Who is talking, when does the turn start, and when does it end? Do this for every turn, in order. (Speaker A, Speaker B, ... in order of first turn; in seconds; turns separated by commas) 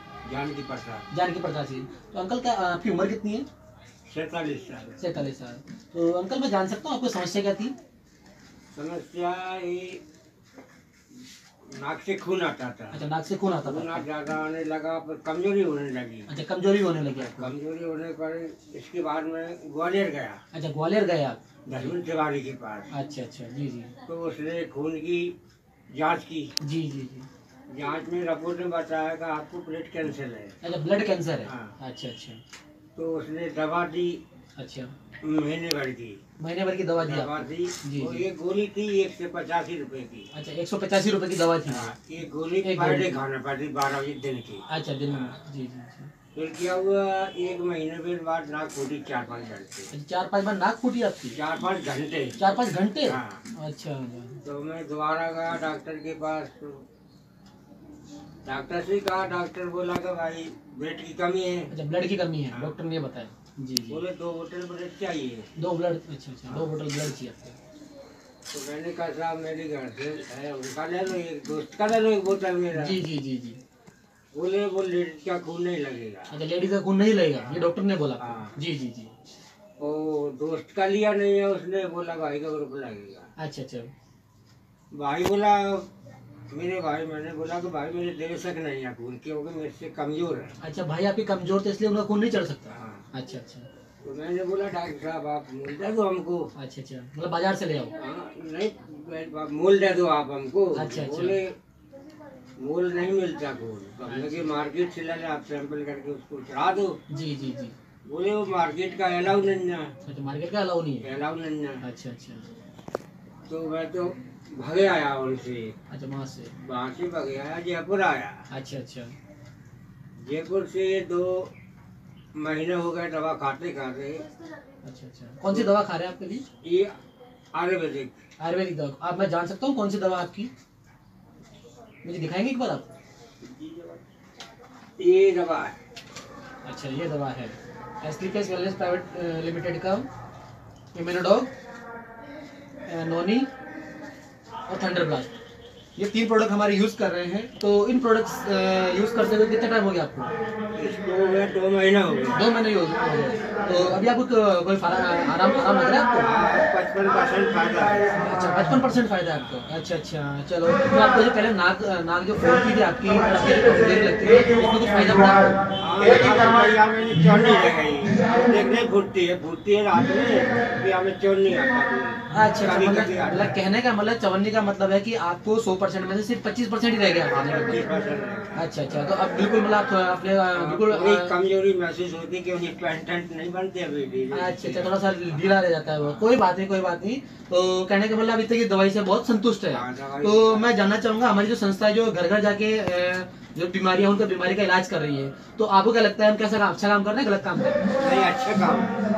Speaker A: 0.2-1.1, Speaker B: 1.1-3.5, Speaker A: 4.1-5.0, Speaker B: 5.0-7.7, Speaker A: 8.7-10.0, Speaker A: 11.7-13.0, Speaker B: 12.9-14.1, Speaker A: 13.6-16.3, Speaker B: 16.3-17.5, Speaker A: 17.2-20.4, Speaker B: 20.5-21.9, Speaker A: 21.7-22.9, Speaker B: 22.9-23.9, Speaker A: 24.1-25.4, Speaker A: 25.9-26.5, Speaker B: 26.6-27.3, Speaker A: 27.7-30.6, Speaker B: 30.6-32.4, Speaker A: 31.4-31.7, Speaker A: 33.0-34.2, Speaker B: 34.6-34.9, Speaker A: 35.2-36.2, Speaker B: 36.4-38.2, Speaker A: 37.0-40.3, Speaker B: 40.3-41.9, Speaker A: 41.7-45.4, Speaker B: 42.6-43.2, Speaker B: 44.7-46.1, Speaker A: 46.3-49.9, Speaker B: 49.9-51.4, Speaker A: 51.3-52.4, Speaker B: 52.4-54.4, Speaker A: 53.0-53.5, Speaker A: 54.4-56.8, Speaker A: 58.5-61.7, Speaker B: 61.7-64.0, Speaker A: 63.9-65.5, Speaker B: 65.6-67.6, Speaker A: 68.5-73.0, Speaker B: 72.8-73.6, Speaker A: 74.3-76.4, Speaker B: 76.3-79.1, Speaker A: 78.2-78.5, Speaker A: 79.8-83.3, Speaker B: 83.4-83.9, Speaker A: 84.9-85.9, Speaker A: 86.5-90.6, Speaker B: 90.6-93.7, Speaker A: 92.7-93.1, Speaker A: 94.0-96.5, Speaker B: 96.6-98.0, Speaker A: 98.0-101.5, Speaker B: 100.7-101.4, Speaker A: 102.6-107.0, Speaker B: 104.1-104.5, Speaker B: 107.1-107.8, Speaker A: 108.1-109.9, Speaker B: 110.0-111.1, Speaker A: 111.0-111.8, Speaker B: 111.8-112.5, Speaker A: 113.5-115.8, Speaker B: 115.9-116.5, Speaker A: 116.6-118.5, Speaker B: 118.5-119.2, Speaker A: 120.2-121.5, Speaker A: 122.3-124.3, Speaker B: 124.8-126.4, Speaker A: 126.6-126.9, Speaker A: 127.5-128.2, Speaker B: 128.4-130.5, Speaker B: 132.0-132.9, Speaker A: 133.4-134.0, Speaker A: 135.0-135.8, Speaker B: 136.7-140.1, Speaker B: 140.9-141.5, Speaker B: 142.9-143.5, Speaker B: 144.7-145.4, Speaker B: 146.0-150.3, Speaker A: 150.8-152.4, Speaker B: 152.3-156.3, Speaker A: 156.2-158.0, Speaker B: 158.1-165.6, Speaker A: 159.3-159.7, Speaker A: 165.8-173.6, Speaker B: 172.3-177.9, Speaker A: 177.3-178.6, Speaker B: 178.6-181.3, Speaker A: 180.5-185.4, Speaker B: 184.3-197.8, Speaker A: 186.0-186.3, Speaker A: 189.7-190.7, Speaker A: 198.0-198.9